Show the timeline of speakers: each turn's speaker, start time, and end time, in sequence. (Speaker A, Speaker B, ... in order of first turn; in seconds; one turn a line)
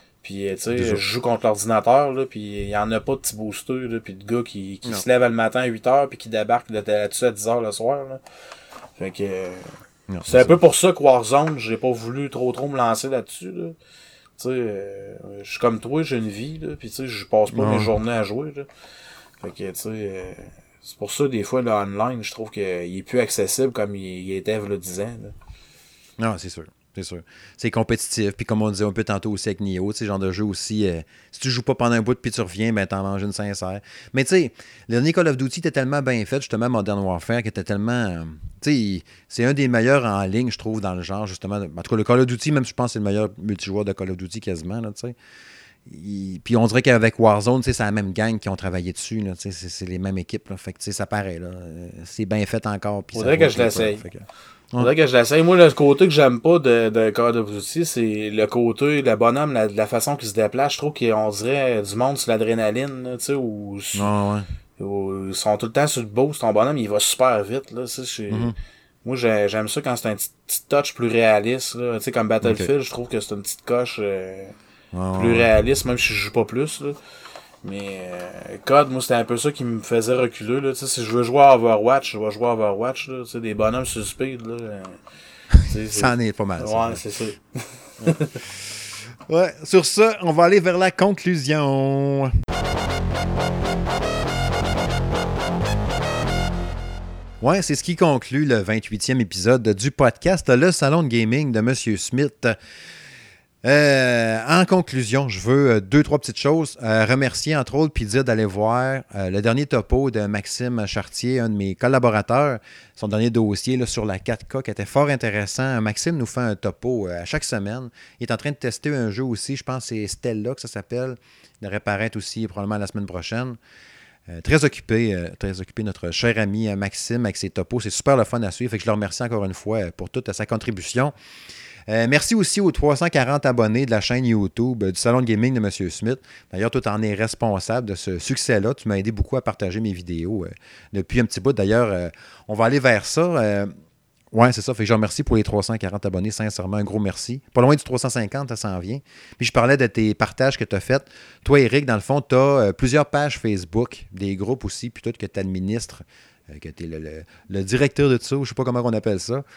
Speaker A: 0.2-8.2
Speaker B: 0.7-1.0
Speaker A: 9.0-9.7
Speaker B: 10.1-10.6
Speaker A: 10.2-13.7
Speaker A: 14.4-18.7
Speaker B: 17.5-17.9
Speaker A: 19.4-25.3
Speaker B: 26.2-45.1
Speaker B: 45.8-54.9
Speaker A: 53.1-54.0
Speaker A: 54.8-64.1
Speaker B: 63.9-64.5
Speaker A: 64.8-68.5
Speaker A: 69.0-74.5
Speaker B: 72.4-72.7
Speaker B: 74.9-75.5
Speaker A: 75.2-77.0
Speaker A: 77.6-85.0
Speaker A: 85.6-88.4
Speaker B: 85.7-87.0
Speaker B: 88.0-92.3
Speaker B: 97.4-102.6
Speaker B: 103.6-123.6
Speaker B: 124.3-131.1
Speaker B: 131.9-143.7
Speaker B: 144.3-159.4